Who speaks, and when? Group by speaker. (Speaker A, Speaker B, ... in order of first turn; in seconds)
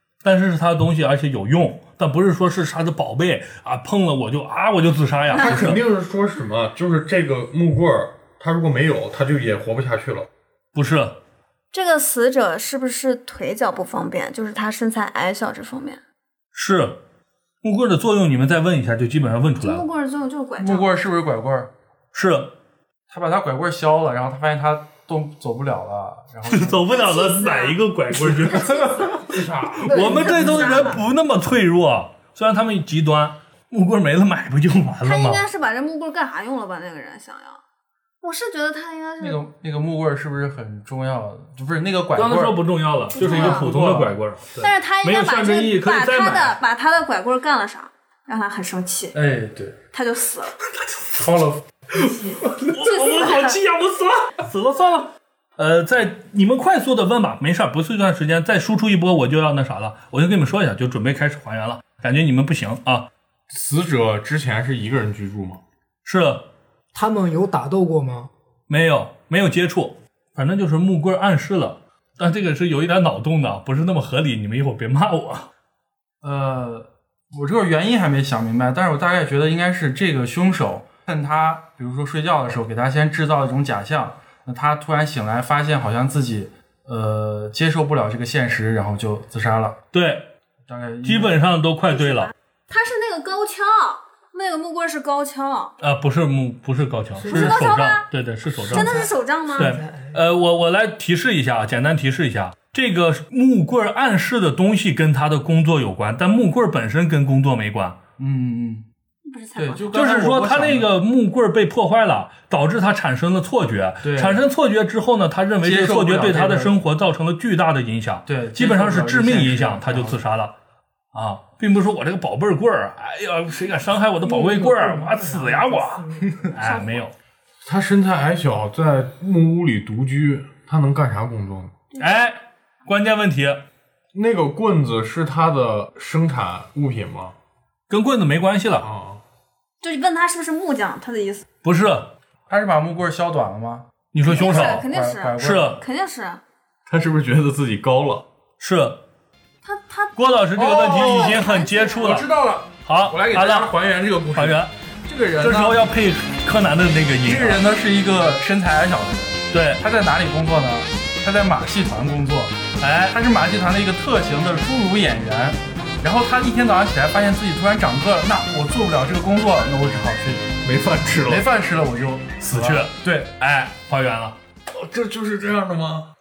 Speaker A: 0.2-5.8, 10.8-11.2, 16.5-17.0, 17.6-19.9, 22.1-22.5, 26.5-35.4, 42.1-46.6, 52.6-63.1, 66.0-66.5, 68.7-75.5, 89.9-90.3, 91.0-92.3, 95.8-99.0, 99.5-108.0, 109.9-120.5, 121.1-127.1, 132.0-133.6, 137.9-138.9, 141.6-142.1, 144.1-144.9, 145.4-145.8, 148.6-149.0, 150.2-152.3, 152.8-153.8, 154.3-154.7, 155.4-157.7, 159.5-159.8, 162.8-163.2, 172.4-174.4
Speaker B: 5.4-5.7, 11.7-16.0, 19.6-20.9, 26.9-27.8, 30.1-31.0, 35.0-37.6, 38.2-39.4, 43.1-43.7, 44.6-49.1, 49.9-50.6, 52.8-53.6, 91.9-95.7, 97.3-98.1, 98.6-99.8, 109.2-110.0, 126.6-127.0, 131.9-132.2, 139.8-141.4, 144.2-146.4, 149.6-150.2, 151.2-152.1
Speaker C: 5.4-10.3, 63.5-65.6, 127.6-131.7, 134.1-137.3, 138.8-139.2, 146.9-148.2, 170.6-171.4, 174.7-176.1
Speaker D: 20.6-21.7, 23.1-27.0, 39.2-42.6, 43.2-44.2, 49.1-49.8, 51.1-52.7, 76.2-89.8, 90.7-91.4, 108.2-108.9, 109.6-110.9, 114.0-114.4, 115.6-116.8, 118.3-120.2, 142.5-145.8, 150.6-151.5, 152.0-155.8, 157.2-162.6, 163.1-170.5, 171.2-173.3
Speaker E: 29.1-31.0, 66.9-68.3, 97.2-97.6, 98.7-100.2, 124.2-126.5